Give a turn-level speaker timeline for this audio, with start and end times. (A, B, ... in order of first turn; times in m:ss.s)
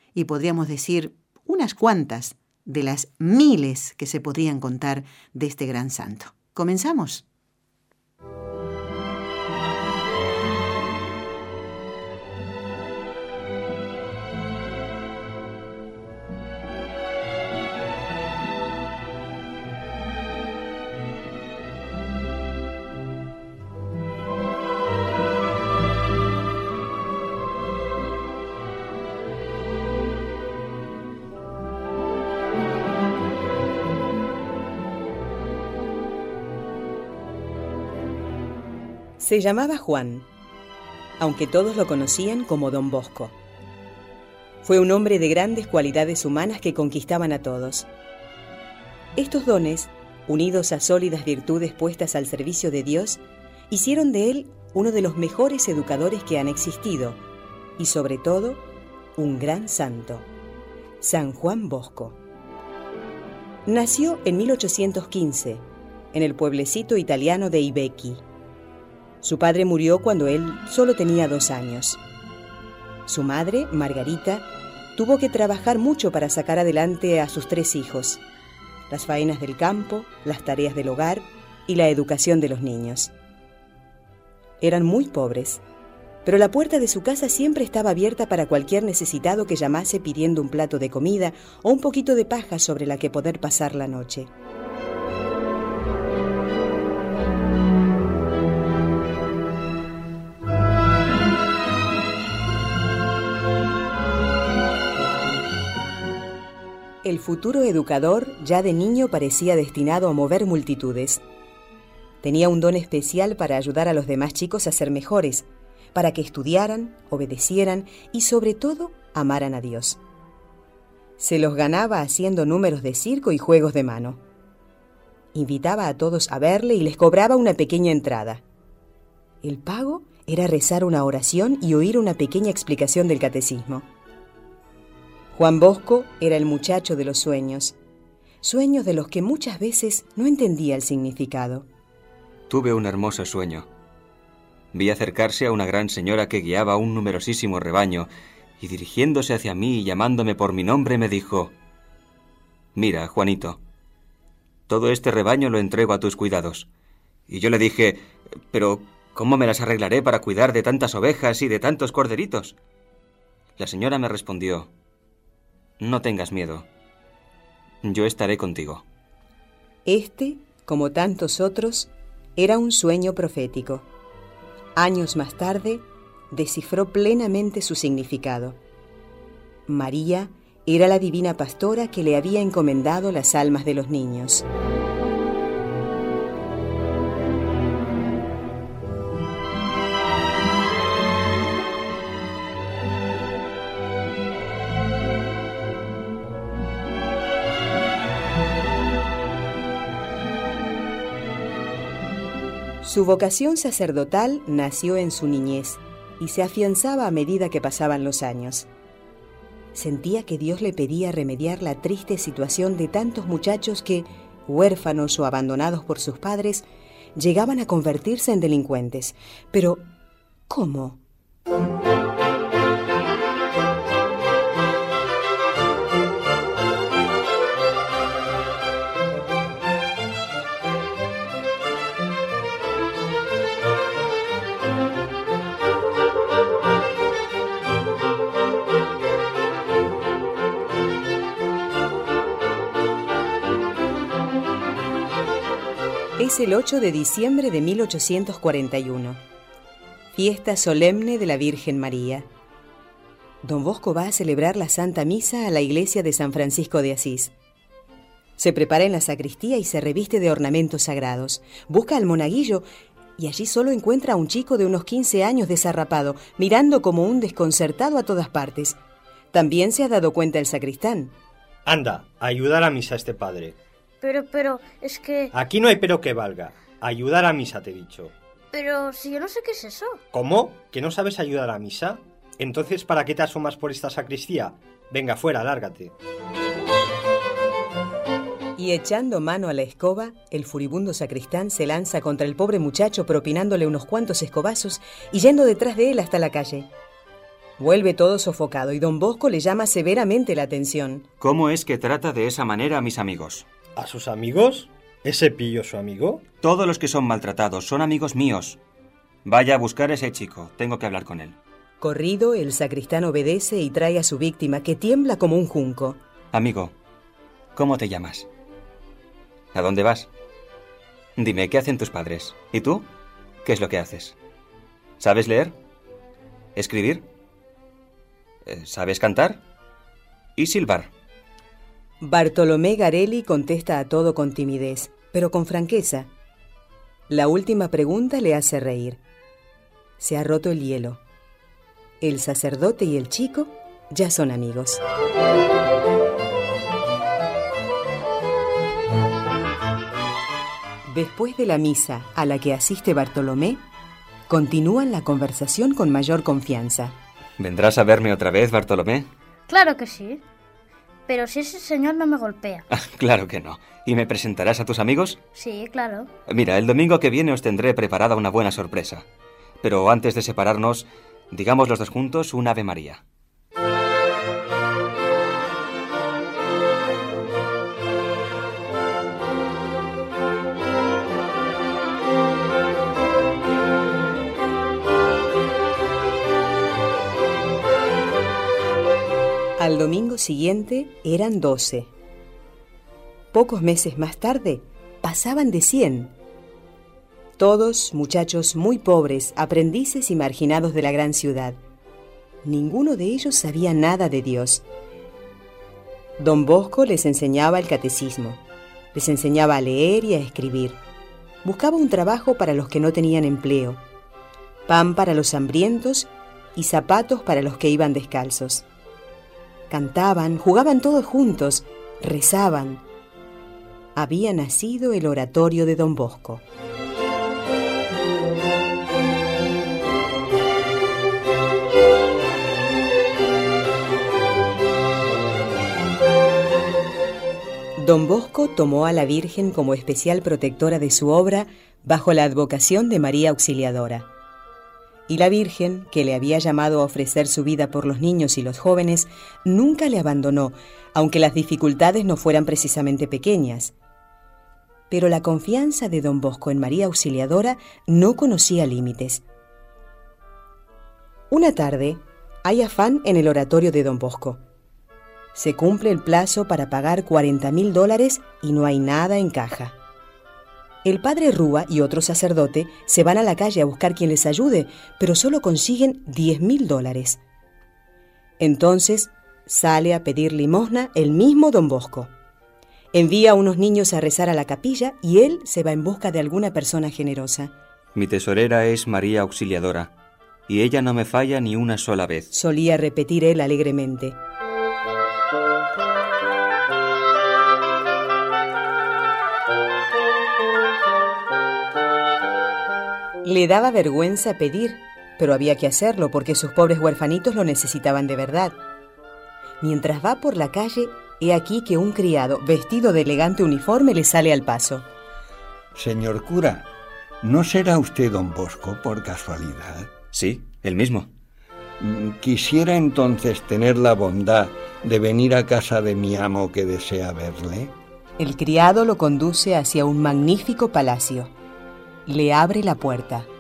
0:00.2-0:07.2 A
0:39.2-0:40.3 B
0:41.2-0:43.4 B
0:44.6-0:47.9 B
0:49.2-0:57.2 B
0:57.8-0:58.6 B
0:59.2-1:00.3 B
1:01.0-1:02.2 B
1:03.7-1:08.2 B
1:09.2-1:12.0 B
1:13.1-1:18.2 B
1:18.9-1:23.1 B
1:24.6-1:25.6 B
1:26.2-1:34.3 B
1:47.0-1:51.2 B
1:52.2-2:00.0 B
2:01.2-2:04.2 B
2:05.3-2:08.4 B
2:09.4-2:13.9 B
2:15.3-2:17.8 B
2:18.4-2:21.7 B
2:22.5-2:23.7 C
2:24.7-2:28.1 C
2:28.6-2:31.5 C
2:32.8-2:33.6 C
2:34.7-2:36.7 C
2:37.3-2:42.6 C
2:43.6-2:44.7 C
2:45.8-2:46.7 C
2:47.8-2:48.8 C
2:49.8-2:53.9 B
2:54.8-2:58.6 B
2:59.7-3:04.4 B
3:22.8-3:28.7 B
3:29.8-3:39.8 B
3:40.5-3:41.0 B
4:06.2-4:09.2 B
4:10.1-4:12.3 B
4:13.4-4:17.3 B
4:18.4-4:22.7 B
4:23.2-4:28.8 B
4:29.3-4:31.1 B
4:31.7-4:33.6 D
4:34.0-4:35.3 E
4:35.3-4:38.1 D
4:38.5-4:40.0 E
4:40.1-4:45.9 D
4:48.6-4:56.7 B
4:57.6-5:01.0 B
5:01.2-5:03.5 C
5:03.8-5:06.2 D
5:06.4-5:08.6 C
5:09.2-5:11.4 C
5:11.8-5:16.0 B
5:16.3-5:16.7 C
5:17.6-5:18.3 C
5:19.5-5:20.1 C
5:21.2-5:22.9 C
5:23.4-5:24.2 C
5:25.0-5:25.5 C
5:26.6-5:27.0 C
5:28.4-5:29.4 C
5:30.4-5:30.9 C
5:32.0-5:36.1 B
5:37.1-5:39.0 B
5:40.0-5:41.0 B
5:42.0-5:44.8 B
5:50.9-5:53.6 B
5:54.3-5:57.0 B
5:57.4-5:59.1 C
5:59.5-6:00.2 E
6:01.1-6:02.6 E
6:02.7-6:05.2 C
6:05.4-6:06.1 E
6:06.3-6:09.1 C
6:09.6-6:13.0 C
6:29.6-6:31.9 B
6:33.3-6:36.1 B
6:37.4-6:41.6 B
6:42.4-6:44.6 B
6:46.2-6:48.4 B
6:48.9-6:50.8 B
6:51.4-6:53.8 B
6:54.7-6:58.6 B
6:59.7-7:02.8 B
7:04.0-7:06.4 B
7:17.8-7:24.1 B
7:25.1-7:33.7 B
7:34.9-7:39.2 B
7:41.3-7:44.4 B
7:45.4-7:49.8 B
7:50.8-7:57.2 B
7:58.4-8:02.1 B
8:02.9-8:07.5 B
8:08.0-8:09.9 C
8:10.5-8:12.3 C
8:12.3-8:14.2 B
8:23.2-8:28.6 B
8:29.6-8:34.9 B
8:35.7-8:36.7 F
8:37.2-8:39.9 F
8:40.1-8:41.1 C
8:41.8-8:47.7 F
8:48.2-8:51.3 B
8:52.1-8:53.3 B